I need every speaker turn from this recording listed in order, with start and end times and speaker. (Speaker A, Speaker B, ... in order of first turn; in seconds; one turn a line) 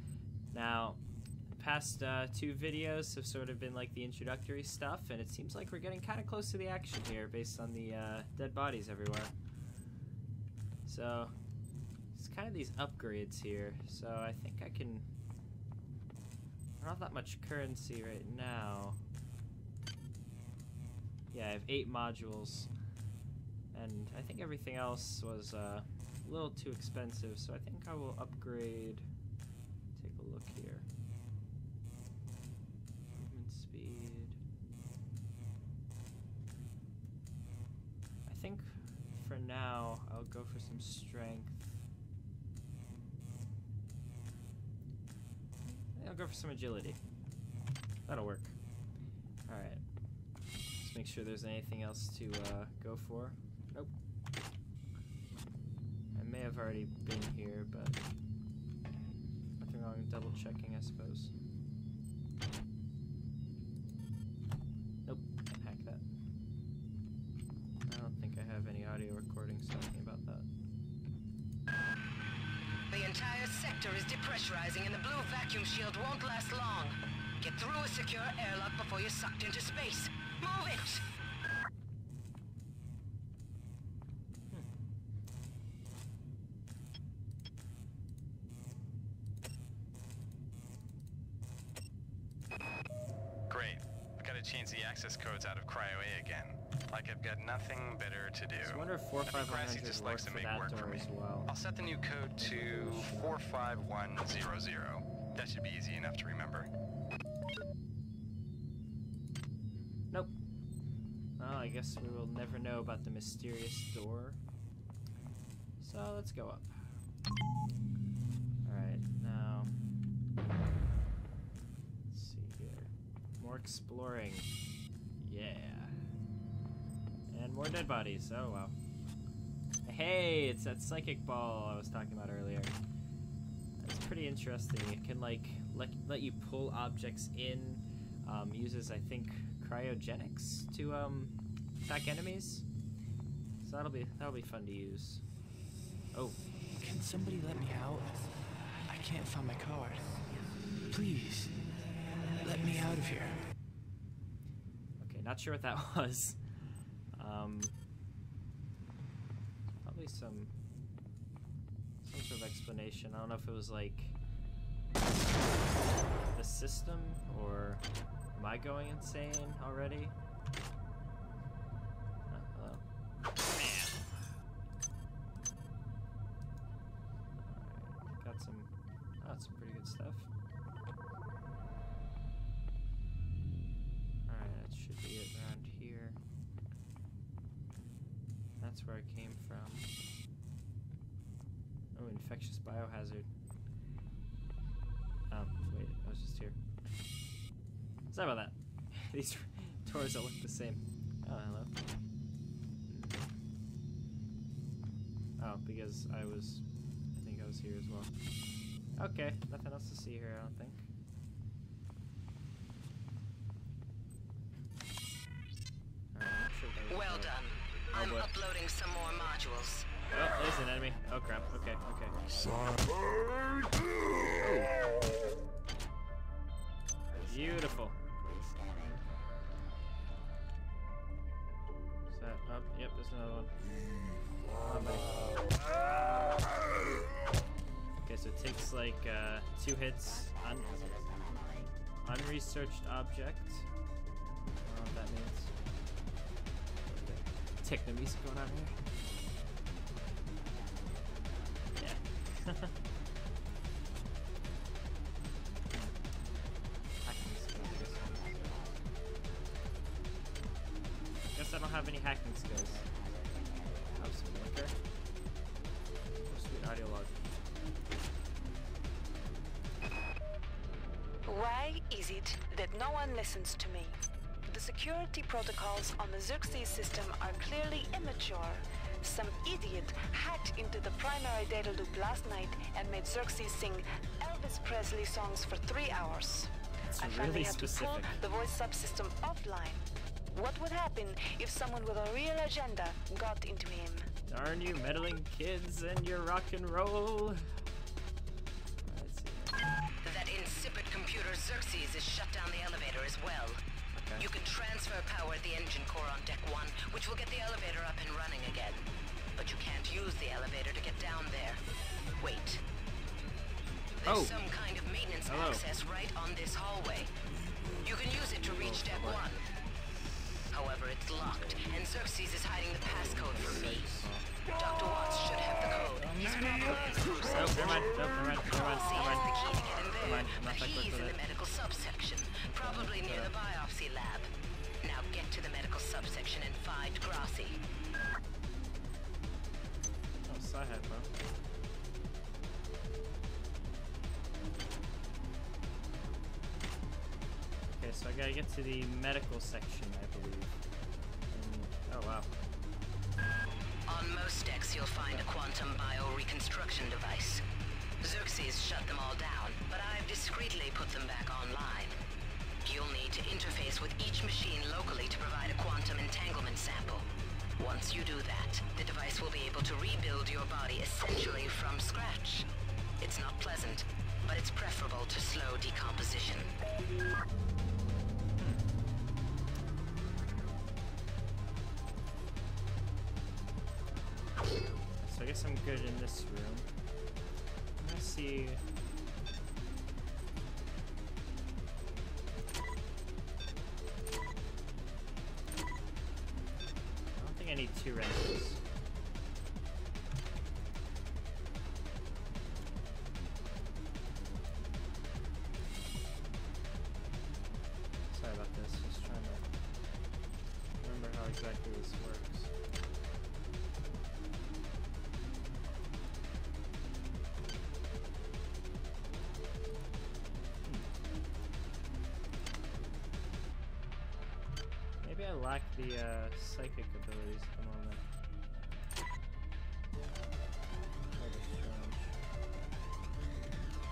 Speaker A: 0.5-1.0
Speaker A: 1.6-9.3
Speaker A: 10.9-11.3
Speaker A: 12.1-15.1
Speaker A: 16.8-19.0
Speaker A: 21.3-22.7
Speaker A: 23.7-29.1
Speaker A: 30.0-30.9
Speaker A: 33.1-34.4
Speaker A: 38.3-41.8
Speaker A: 45.7-47.0
Speaker A: 48.1-48.5
Speaker A: 49.5-49.8
Speaker A: 50.8-53.9
Speaker A: 56.1-58.0
Speaker A: 59.6-61.3
Speaker A: 65.0-66.0
Speaker A: 67.9-70.5
Speaker B: 72.9-81.0
Speaker C: 93.5-106.7
Speaker A: 98.6-101.5
Speaker A: 102.4-103.4
Speaker A: 111.4-114.4
Speaker A: 115.8-116.9
Speaker A: 118.7-119.7
Speaker A: 122.1-124.5
Speaker A: 125.2-126.0
Speaker A: 127.3-128.7
Speaker A: 129.8-132.8
Speaker A: 133.8-142.7
Speaker A: 143.6-145.2
Speaker D: 146.8-148.3
Speaker D: 149.1-150.2
Speaker D: 150.9-151.6
Speaker D: 152.4-153.4
Speaker A: 155.0-156.4
Speaker A: 157.2-157.8
Speaker A: 159.8-160.5
Speaker A: 162.0-164.2
Speaker A: 166.3-167.8
Speaker A: 168.3-170.1
Speaker A: 172.3-172.8
Speaker A: 173.5-174.0
Speaker A: 177.4-180.3
Speaker A: 184.3-186.2
Speaker A: 188.6-189.9
Speaker A: 191.9-193.3
Speaker A: 195.3-196.6
Speaker A: 198.1-201.8
Speaker A: 202.9-203.3
Speaker A: 205.4-208.1
Speaker A: 209.0-210.8
Speaker A: 216.1-217.4
Speaker B: 216.9-219.9
Speaker A: 217.9-218.3
Speaker A: 220.1-222.2
Speaker A: 224.4-224.7
Speaker A: 227.2-228.0
Speaker A: 232.1-233.5
Speaker A: 234.6-235.4
Speaker A: 238.1-241.0
Speaker A: 242.0-243.7
Speaker A: 244.7-245.5
Speaker A: 246.8-248.8
Speaker A: 251.8-252.7
Speaker A: 257.0-258.5
Speaker A: 261.3-262.9
Speaker A: 263.9-264.7
Speaker A: 266.3-267.2
Speaker E: 271.2-294.1
Speaker A: 286.9-288.2
Speaker A: 294.3-297.5
Speaker A: 298.9-299.7
Speaker B: 300.0-303.6
Speaker A: 303.9-304.3
Speaker B: 304.2-311.6
Speaker B: 312.2-312.6
Speaker B: 314.0-317.1
Speaker A: 314.1-314.4
Speaker A: 315.2-315.6
Speaker B: 317.8-319.4
Speaker A: 318.6-319.3
Speaker B: 320.5-323.9
Speaker A: 322.9-324.3
Speaker B: 324.5-327.9
Speaker A: 327.3-331.2
Speaker B: 328.4-334.3
Speaker A: 332.4-333.3
Speaker B: 334.8-337.6
Speaker A: 340.2-341.1
Speaker A: 347.6-350.6
Speaker A: 351.3-352.3
Speaker B: 353.9-357.4
Speaker B: 358.0-362.0
Speaker B: 362.6-367.1
Speaker B: 367.6-372.5
Speaker B: 373.0-376.5
Speaker A: 385.0-386.8
Speaker A: 387.8-388.6
Speaker A: 397.2-398.6
Speaker A: 408.1-409.4
Speaker A: 410.8-412.5
Speaker A: 425.0-428.0
Speaker A: 431.1-432.2